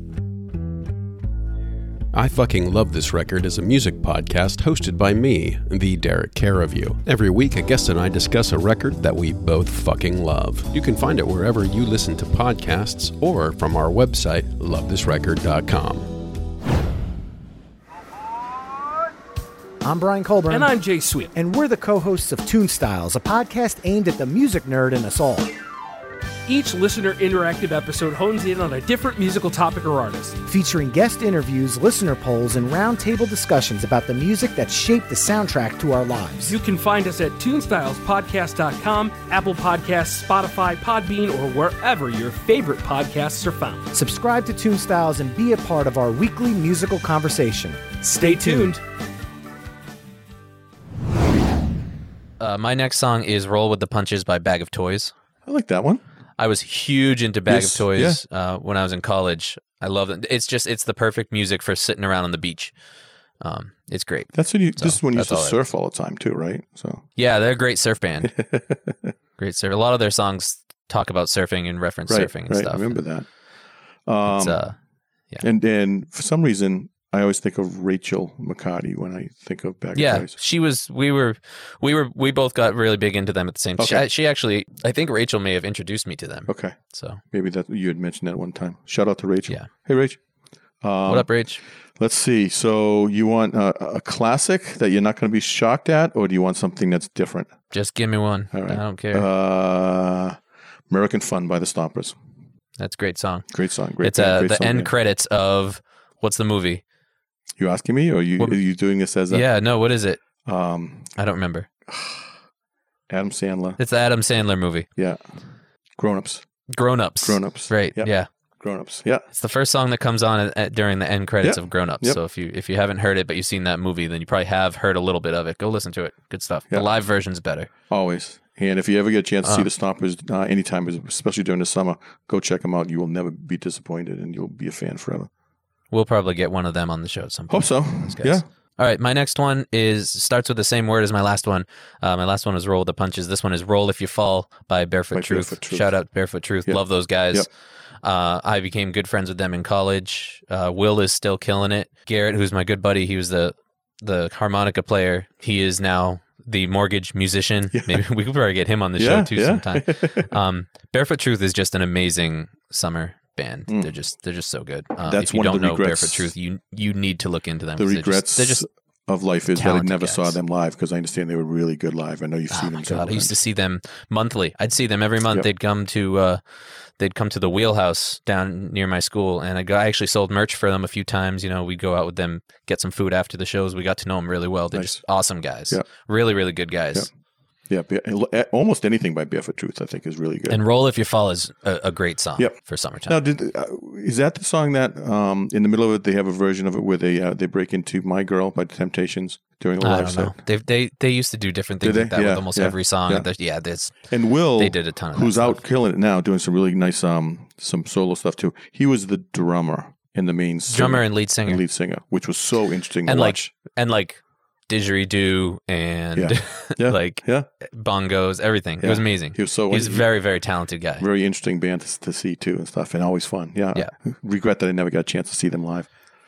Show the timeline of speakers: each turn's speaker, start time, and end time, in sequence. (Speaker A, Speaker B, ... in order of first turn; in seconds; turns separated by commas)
Speaker A: 2.1-16.1, Speaker B: 19.8-20.7, Speaker C: 20.5-21.3, Speaker B: 21.4-25.5, Speaker C: 26.5-30.4, Speaker B: 30.5-36.6, Speaker C: 36.4-43.9, Speaker B: 43.9-48.8, Speaker C: 48.1-48.8, Speaker D: 52.4-55.1, Speaker E: 55.5-56.0, Speaker D: 56.4-62.7, Speaker E: 57.5-58.2, Speaker D: 63.4-65.6, Speaker E: 64.3-67.1, Speaker D: 67.2-68.4, Speaker E: 68.2-69.1, Speaker D: 69.4-73.0, Speaker E: 72.1-73.3, Speaker E: 74.1-74.6, Speaker D: 74.2-74.8, Speaker E: 75.4-80.4, Speaker D: 80.0-87.2, Speaker E: 83.8-84.1, Speaker E: 86.5-90.2, Speaker E: 90.8-91.4, Speaker D: 91.1-91.6, Speaker E: 92.0-97.6, Speaker D: 97.7-99.3, Speaker E: 98.5-100.4, Speaker E: 100.9-102.2, Speaker D: 102.8-103.5, Speaker E: 103.5-104.9, Speaker D: 104.0-106.8, Speaker E: 107.6-109.5, Speaker D: 109.3-110.2, Speaker E: 110.5-111.2, Speaker D: 111.2-111.7, Speaker E: 111.9-112.3, Speaker E: 113.1-113.8, Speaker D: 113.8-114.9, Speaker E: 115.0-115.3, Speaker E: 116.0-116.5, Speaker D: 116.7-118.3, Speaker E: 117.2-119.2, Speaker D: 119.3-127.7, Speaker E: 121.4-122.2, Speaker E: 127.9-135.3, Speaker D: 135.9-147.5, Speaker E: 137.5-138.5, Speaker E: 145.1-145.9, Speaker E: 146.6-147.5, Speaker D: 148.0-168.6, Speaker E: 157.7-158.0, Speaker E: 159.0-160.3, Speaker E: 165.1-166.3, Speaker E: 167.8-173.4, Speaker D: 169.5-170.4, Speaker D: 172.5-176.4, Speaker D: 177.0-187.1, Speaker E: 184.7-185.0, Speaker E: 187.7-190.6, Speaker D: 190.5-193.2, Speaker E: 192.4-200.3, Speaker D: 199.8-204.0, Speaker E: 201.8-203.3, Speaker E: 204.1-213.5, Speaker D: 204.6-205.6, Speaker D: 210.7-211.6, Speaker D: 213.1-221.1, Speaker E: 216.2-217.5, Speaker E: 218.8-220.1, Speaker E: 221.0-225.9